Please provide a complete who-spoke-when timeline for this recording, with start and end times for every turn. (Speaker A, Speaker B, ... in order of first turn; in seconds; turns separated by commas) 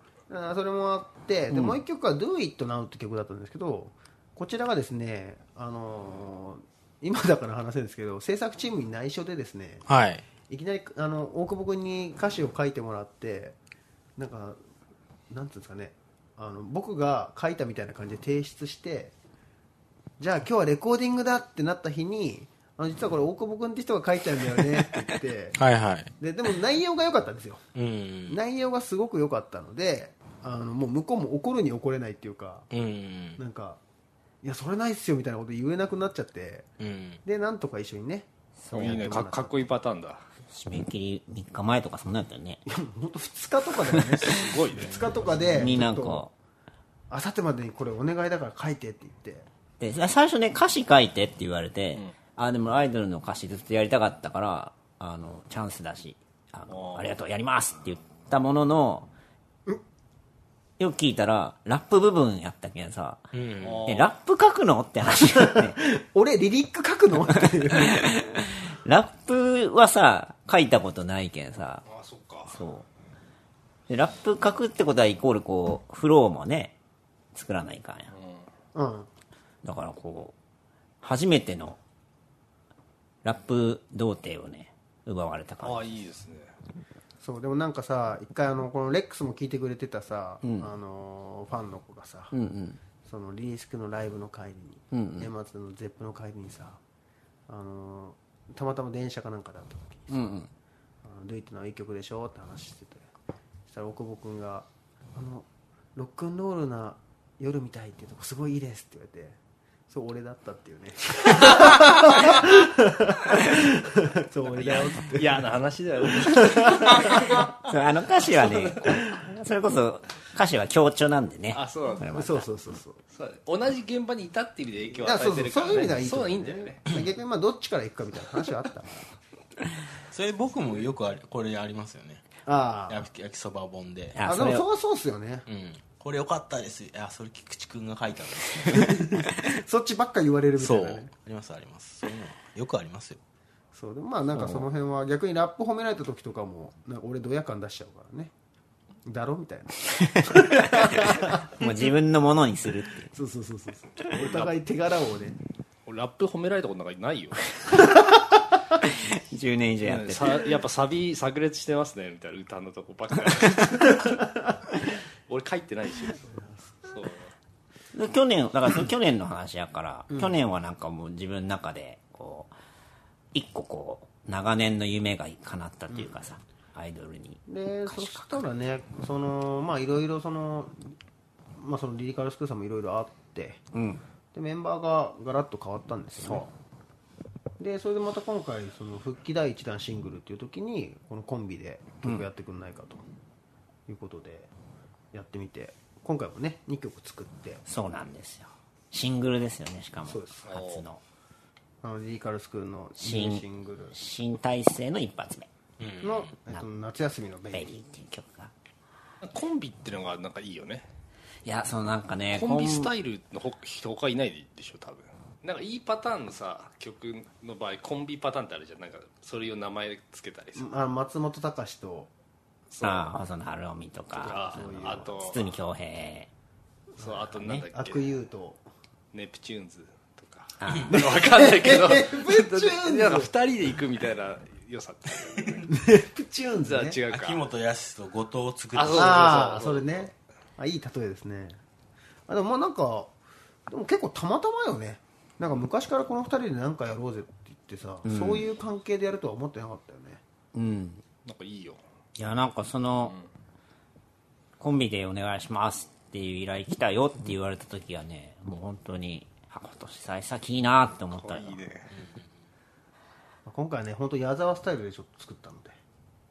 Speaker A: 0.3-9.8, Speaker B: 1.5-1.8, Speaker C: 9.8-10.2, Speaker A: 10.5-13.6, Speaker A: 14.2-14.6, Speaker A: 15.3-19.1, Speaker A: 20.2-25.6, Speaker C: 25.5-26.1, Speaker A: 26.2-27.6, Speaker C: 27.7-28.4, Speaker A: 28.3-32.7, Speaker C: 32.7-33.4, Speaker A: 33.4-33.8, Speaker A: 34.4-36.7, Speaker C: 36.8-37.2, Speaker A: 37.2-39.6, Speaker B: 38.6-39.2, Speaker D: 38.7-40.2, Speaker B: 40.5-42.6, Speaker A: 42.6-46.2, Speaker D: 44.2-45.2, Speaker B: 45.5-46.3, Speaker A: 47.1-49.5, Speaker B: 49.8-59.1, Speaker D: 51.9-52.2, Speaker D: 56.7-57.2, Speaker B: 60.8-63.3, Speaker C: 63.3-63.8, Speaker D: 63.6-64.2, Speaker B: 63.9-65.8, Speaker A: 65.2-68.1, Speaker B: 67.7-71.8, Speaker D: 71.8-72.6, Speaker B: 72.5-72.8, Speaker B: 73.9-76.8, Speaker B: 77.3-78.1, Speaker D: 78.1-78.5, Speaker A: 78.7-79.1, Speaker B: 79.6-80.3, Speaker B: 81.0-81.8, Speaker B: 83.2-85.9, Speaker D: 85.6-86.5, Speaker A: 87.2-92.3, Speaker B: 90.4-90.7, Speaker B: 92.3-92.8, Speaker A: 93.0-96.8, Speaker B: 94.9-95.3, Speaker A: 97.5-100.2, Speaker B: 100.1-100.5, Speaker A: 101.0-103.1, Speaker A: 103.7-109.4, Speaker A: 109.9-115.5, Speaker D: 114.4-117.4, Speaker A: 116.2-117.4, Speaker B: 117.2-122.5, Speaker D: 118.2-118.9, Speaker D: 121.5-122.1, Speaker A: 122.1-123.0, Speaker D: 123.1-126.9, Speaker A: 125.0-129.0, Speaker C: 130.1-132.2, Speaker A: 132.4-133.0, Speaker C: 132.9-134.2, Speaker B: 134.1-134.7, Speaker A: 134.2-135.4, Speaker C: 135.5-139.2, Speaker A: 138.7-141.1, Speaker C: 140.6-143.2, Speaker A: 143.7-148.3, Speaker B: 144.4-144.7, Speaker A: 149.1-151.5, Speaker B: 150.4-150.9, Speaker B: 151.5-153.1, Speaker A: 153.1-155.4, Speaker D: 154.1-154.5, Speaker D: 155.8-157.8, Speaker B: 158.8-160.5, Speaker D: 159.8-164.2, Speaker D: 165.3-166.2, Speaker A: 166.2-166.7, Speaker D: 166.8-167.3, Speaker B: 167.9-172.5, Speaker B: 173.3-178.4, Speaker A: 177.5-180.9, Speaker A: 181.6-183.6, Speaker B: 183.7-184.0, Speaker A: 184.3-186.5, Speaker B: 186.2-186.4, Speaker A: 187.6-193.0, Speaker A: 193.9-194.5, Speaker A: 195.1-197.6, Speaker B: 197.7-201.0, Speaker A: 200.0-200.5, Speaker D: 200.4-200.9, Speaker A: 201.8-203.9, Speaker B: 203.0-205.5, Speaker C: 205.8-206.3, Speaker A: 206.0-207.7, Speaker B: 207.5-208.5, Speaker D: 209.2-210.9, Speaker B: 211.4-212.9, Speaker D: 212.3-220.7, Speaker A: 220.6-222.1, Speaker D: 222.7-223.2, Speaker B: 222.8-226.3, Speaker D: 224.1-225.5, Speaker A: 224.2-225.3, Speaker D: 227.0-228.2, Speaker A: 227.0-228.6, Speaker D: 229.1-235.8, Speaker B: 230.6-230.9, Speaker A: 230.9-233.3, Speaker A: 235.7-237.0, Speaker D: 236.6-237.4, Speaker C: 237.1-239.3, Speaker D: 238.7-240.1, Speaker A: 238.9-241.6, Speaker A: 242.3-243.1, Speaker A: 243.7-250.2, Speaker B: 248.0-248.4, Speaker B: 250.5-251.0, Speaker D: 251.2-251.8, Speaker B: 252.2-253.1, Speaker D: 253.0-253.2, Speaker B: 254.6-261.6, Speaker D: 261.1-261.9, Speaker C: 261.9-262.2, Speaker A: 263.4-265.8